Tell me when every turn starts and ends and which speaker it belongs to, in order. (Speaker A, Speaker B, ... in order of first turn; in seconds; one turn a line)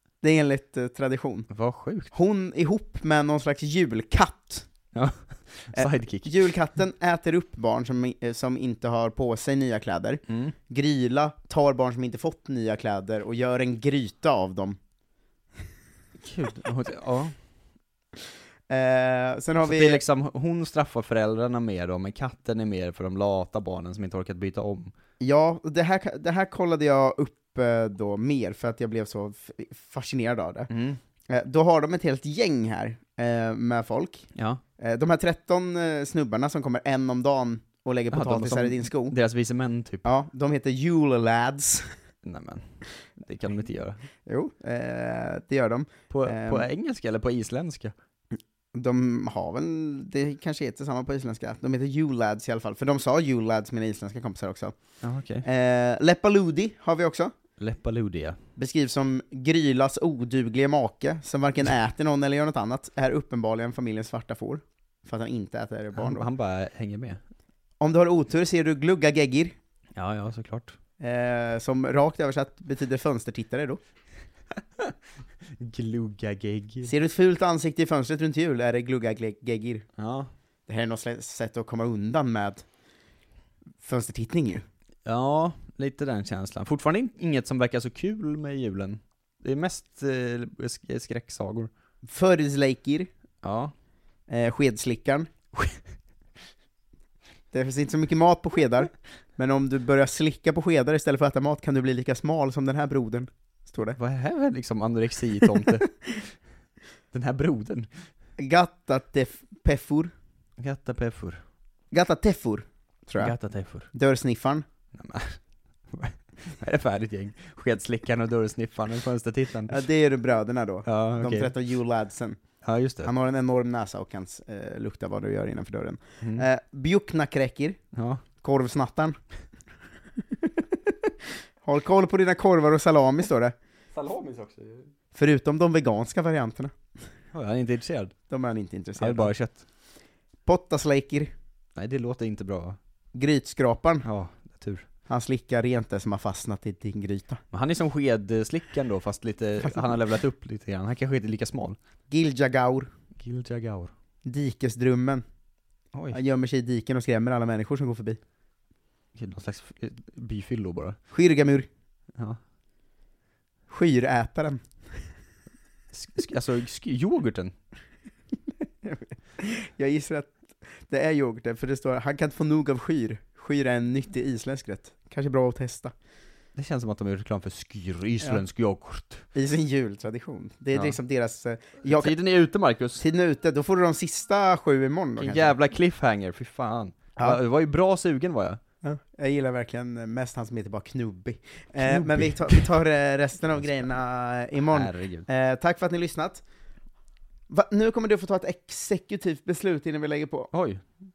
Speaker A: 0.2-1.5
Speaker B: 1.5-2.1
Speaker A: 2.1-4.7
Speaker B: 4.9-6.5
Speaker A: 5.7-14.8
Speaker B: 10.3-10.5
Speaker B: 16.2-17.3
Speaker A: 18.7-20.0
Speaker B: 19.6-24.9
Speaker A: 25.2-30.7
Speaker B: 30.7-31.0
Speaker A: 31.3-34.3
Speaker B: 34.3-34.6
Speaker A: 34.8-39.1
Speaker B: 38.1-40.2
Speaker A: 40.1-41.9
Speaker B: 42.2-44.0
Speaker A: 44.2-46.6
Speaker B: 46.1-47.9
Speaker A: 48.7-54.7
Speaker B: 55.0-55.5
Speaker A: 55.5-57.3
Speaker B: 57.6-58.4
Speaker A: 58.5-66.3
Speaker B: 65.9-67.2
Speaker A: 67.8-69.5
Speaker B: 69.9-70.8
Speaker A: 71.0-73.8
Speaker B: 75.6-77.0
Speaker A: 76.9-79.8
Speaker B: 80.0-80.3
Speaker A: 80.7-82.6
Speaker A: 83.8-84.6
Speaker B: 85.0-91.7
Speaker A: 92.0-93.1
Speaker B: 93.4-93.7
Speaker A: 94.3-95.3
Speaker A: 97.5-104.0
Speaker B: 103.9-106.0
Speaker B: 107.1-107.9
Speaker A: 108.4-110.1
Speaker B: 110.6-111.4
Speaker A: 111.9-113.3
Speaker B: 113.2-113.9
Speaker A: 113.9-114.6
Speaker B: 114.9-115.4
Speaker B: 115.9-119.9
Speaker A: 119.7-122.4
Speaker B: 120.8-121.6
Speaker B: 122.6-123.1
Speaker A: 123.0-127.8
Speaker B: 126.2-126.5
Speaker B: 127.9-128.2
Speaker A: 128.4-129.2
Speaker A: 131.6-133.5
Speaker B: 133.9-134.9
Speaker A: 135.1-136.7
Speaker B: 137.3-138.1
Speaker A: 138.3-139.3
Speaker B: 138.9-139.6
Speaker A: 140.4-141.3
Speaker B: 141.8-142.8
Speaker A: 143.1-144.0
Speaker B: 144.0-144.8
Speaker A: 145.1-147.4
Speaker B: 147.5-151.8
Speaker A: 152.1-152.9
Speaker B: 153.2-153.9
Speaker A: 154.2-155.2
Speaker B: 155.9-156.2
Speaker A: 156.1-158.2
Speaker B: 159.2-161.0
Speaker A: 161.1-161.7
Speaker A: 163.7-164.6
Speaker B: 165.9-167.5
Speaker A: 168.8-175.9
Speaker B: 176.5-179.2
Speaker A: 179.3-182.1
Speaker B: 180.7-181.0
Speaker B: 181.8-183.0
Speaker A: 183.0-185.5
Speaker B: 185.2-188.6
Speaker A: 188.8-196.4
Speaker B: 191.8-192.8
Speaker B: 193.5-193.9
Speaker B: 194.6-195.2
Speaker A: 197.5-200.5
Speaker B: 200.5-200.8